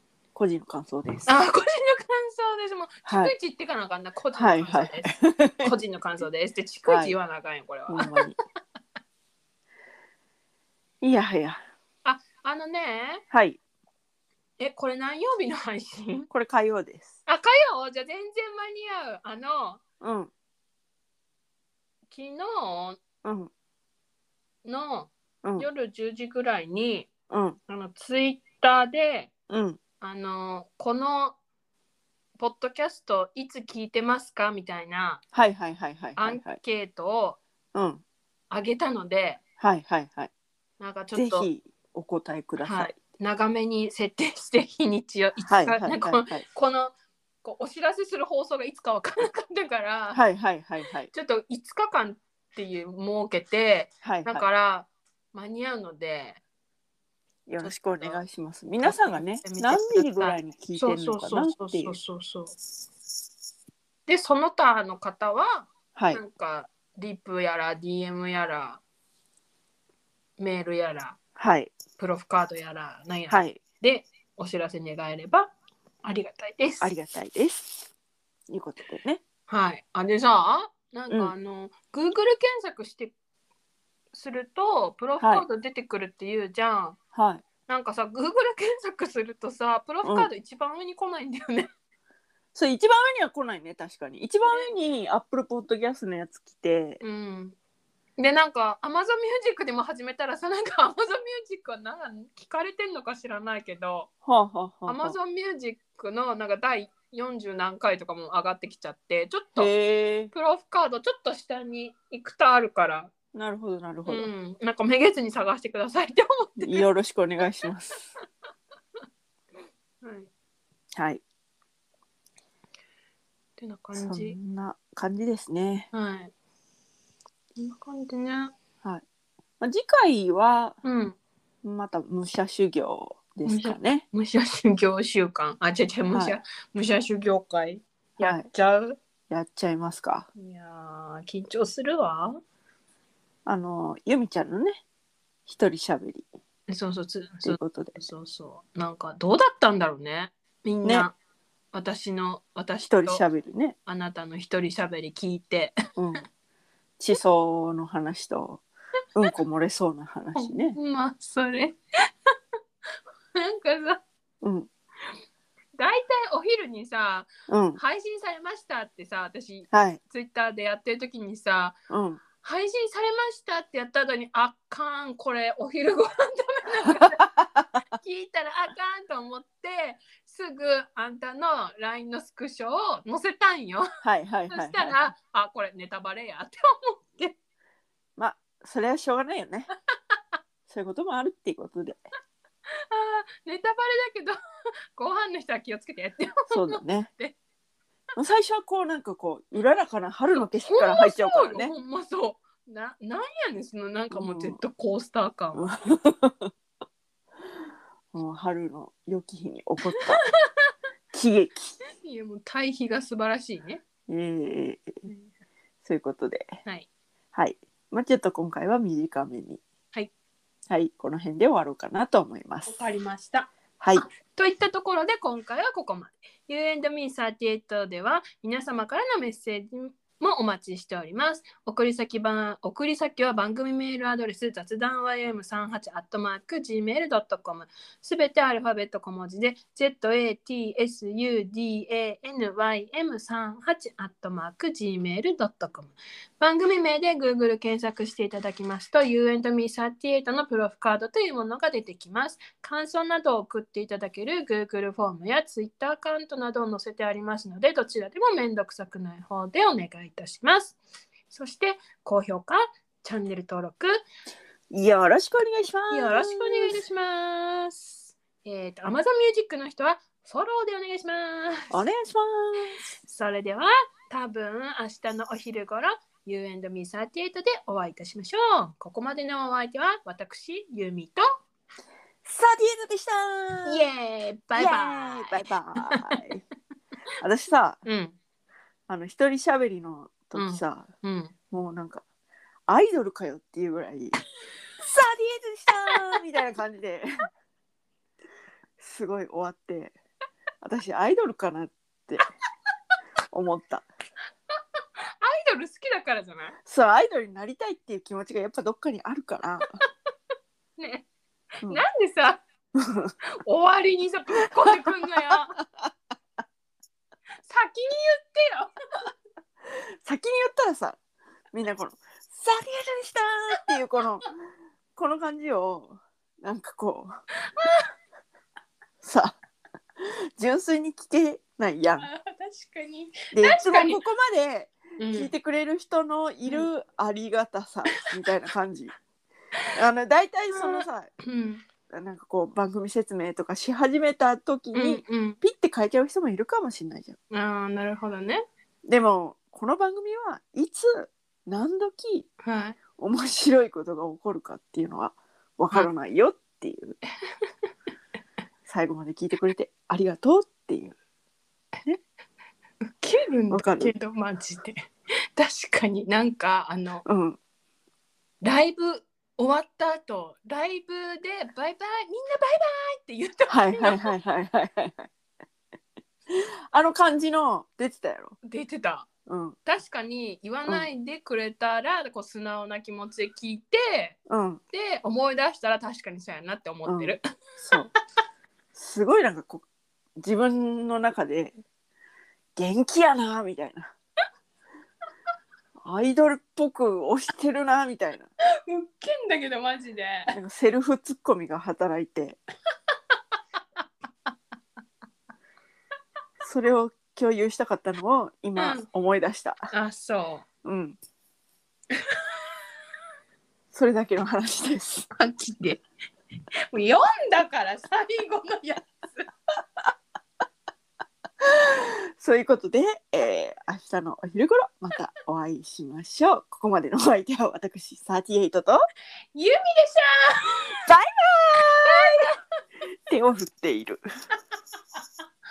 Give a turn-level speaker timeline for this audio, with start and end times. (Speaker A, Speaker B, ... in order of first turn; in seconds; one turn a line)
Speaker A: 0.3-1.3
Speaker B: 1.3-8.3
Speaker A: 3.1-3.3
Speaker A: 4.3-5.7
Speaker A: 6.9-7.2
Speaker A: 7.9-8.4
Speaker A: 11.0-11.6
Speaker B: 12.0-13.2
Speaker A: 13.3-13.6
Speaker B: 14.6-16.3
Speaker A: 16.3-17.1
Speaker B: 17.3-19.8
Speaker A: 20.0-20.3
Speaker B: 22.1-23.0
Speaker A: 23.2-23.5
Speaker B: 24.6-27.1
Speaker A: 27.3-27.6
Speaker B: 27.7-29.3
Speaker A: 29.5-29.8
Speaker B: 30.0-31.4
Speaker B: 32.4-35.2
Speaker A: 35.3-36.6
Speaker B: 36.2-37.4
Speaker A: 37.8-38.0
Speaker B: 38.5-39.4
Speaker A: 39.6-40.3
Speaker B: 40.8-41.5
Speaker A: 41.1-43.0
Speaker B: 42.6-50.2
Speaker A: 45.5-46.5
Speaker A: 50.1-51.1
Speaker B: 51.1-56.4
Speaker A: 54.0-54.5
Speaker A: 57.5-62.0
Speaker B: 57.6-58.2
Speaker B: 58.8-62.5
Speaker B: 64.1-68.8
Speaker A: 66.0-66.2
Speaker B: 70.4-71.2
Speaker A: 71.4-71.8
Speaker B: 71.9-75.5
Speaker A: 73.3-73.6
Speaker B: 76.0-76.9
Speaker A: 76.8-77.9
Speaker A: 78.5-79.2
Speaker B: 79.5-83.1
Speaker B: 84.1-87.0
Speaker A: 85.2-85.5
Speaker A: 87.1-87.4
Speaker B: 87.7-91.7
Speaker A: 90.0-90.3
Speaker A: 92.5-97.0
Speaker B: 94.5-94.7
Speaker B: 97.0-97.6
Speaker B: 98.2-104.1
Speaker A: 104.2-105.2
Speaker B: 104.9-109.7
Speaker A: 109.6-110.3
Speaker B: 110.3-113.1
Speaker A: 113.3-114.3
Speaker B: 114.1-116.9
Speaker A: 116.6-118.1
Speaker B: 120.0-120.3
Speaker A: 121.0-121.2
Speaker B: 123.6-124.4
Speaker A: 124.0-125.9
Speaker B: 125.9-126.3
Speaker B: 127.6-128.6
Speaker A: 129.6-130.8
Speaker B: 130.8-131.2
Speaker A: 131.6-134.0
Speaker B: 133.5-139.0
Speaker A: 136.1-136.4
Speaker A: 138.2-138.5
Speaker A: 139.3-140.3
Speaker B: 140.4-142.4
Speaker A: 143.5-144.8
Speaker A: 145.5-146.3
Speaker B: 146.7-151.1
Speaker A: 147.4-148.0
Speaker B: 151.7-153.2
Speaker A: 152.9-153.8
Speaker B: 153.9-155.8
Speaker A: 156.0-156.2
Speaker A: 157.0-158.6
Speaker A: 159.2-160.8
Speaker B: 160.3-161.8
Speaker B: 163.3-164.0
Speaker A: 164.4-164.7
Speaker B: 165.8-171.8
Speaker A: 167.5-167.8
Speaker A: 169.7-170.0
Speaker A: 171.9-172.2
Speaker B: 172.4-177.3
Speaker A: 177.0-177.7
Speaker B: 177.9-183.9
Speaker A: 184.0-185.0
Speaker B: 184.5-187.4
Speaker A: 188.2-189.7
Speaker A: 190.7-192.0
Speaker B: 192.8-194.4
Speaker B: 194.9-197.4
Speaker A: 196.5-197.1
Speaker A: 198.2-201.7
Speaker B: 200.4-205.7
Speaker A: 204.1-204.6
Speaker A: 205.6-206.5
Speaker A: 208.1-210.2
Speaker B: 209.9-210.7
Speaker A: 211.1-211.8
Speaker B: 212.0-213.8
Speaker A: 214.1-215.0
Speaker A: 215.8-216.5
Speaker A: 217.3-219.6
Speaker A: 220.7-222.8
Speaker B: 222.7-264.0
Speaker A: 223.8-224.1
Speaker A: 264.7-266.8
Speaker B: 265.9-271.7
Speaker A: 271.7-272.8
Speaker B: 273.0-281.2
Speaker A: 282.2-283.9
Speaker B: 283.7-286.2
Speaker A: 284.5-286.4
Speaker A: 287.2-287.8
Speaker B: 287.9-288.2
Speaker A: 288.9-290.9
Speaker B: 290.3-291.3
Speaker A: 291.5-292.0
Speaker A: 292.7-294.2
Speaker A: 294.8-297.1
Speaker A: 298.8-299.9
Speaker A: 300.6-302.2
Speaker A: 303.3-303.9
Speaker B: 305.2-306.6
Speaker A: 306.6-309.6
Speaker B: 310.8-311.1
Speaker B: 311.6-312.4
Speaker A: 312.8-313.1
Speaker B: 313.4-315.6
Speaker A: 315.6-315.9
Speaker B: 317.4-318.7
Speaker A: 320.0-321.0
Speaker A: 321.5-324.3
Speaker A: 325.0-327.1
Speaker B: 327.6-327.9
Speaker A: 329.0-329.4
Speaker A: 330.0-332.1
Speaker B: 332.0-334.0
Speaker A: 333.3-338.9
Speaker B: 335.0-335.3
Speaker A: 339.8-341.1
Speaker B: 340.6-341.7
Speaker A: 341.9-347.2
Speaker B: 344.7-345.4
Speaker B: 347.3-348.4
Speaker A: 348.9-352.3
Speaker B: 352.4-352.8
Speaker A: 353.0-357.0
Speaker A: 358.7-361.0
Speaker B: 363.0-367.0
Speaker A: 363.5-363.9
Speaker A: 367.1-367.4
Speaker B: 368.4-374.2
Speaker A: 373.5-375.1
Speaker A: 376.3-378.4
Speaker B: 378.4-379.1
Speaker A: 379.3-379.6
Speaker B: 379.7-384.2
Speaker A: 384.3-384.6
Speaker B: 384.7-387.2
Speaker A: 386.9-387.9
Speaker A: 388.7-389.6
Speaker A: 390.2-391.6
Speaker A: 392.6-393.9
Speaker A: 395.8-398.3
Speaker B: 398.7-400.3
Speaker A: 400.3-402.4
Speaker A: 406.4-409.6
Speaker B: 408.6-408.9
Speaker B: 409.7-410.4
Speaker A: 410.6-411.0
Speaker B: 411.9-412.2
Speaker A: 413.7-415.1
Speaker B: 415.2-415.8
Speaker B: 416.7-419.3
Speaker A: 421.5-428.8
Speaker B: 429.3-430.7
Speaker A: 430.9-432.2
Speaker B: 431.9-432.4
Speaker A: 433.1-434.0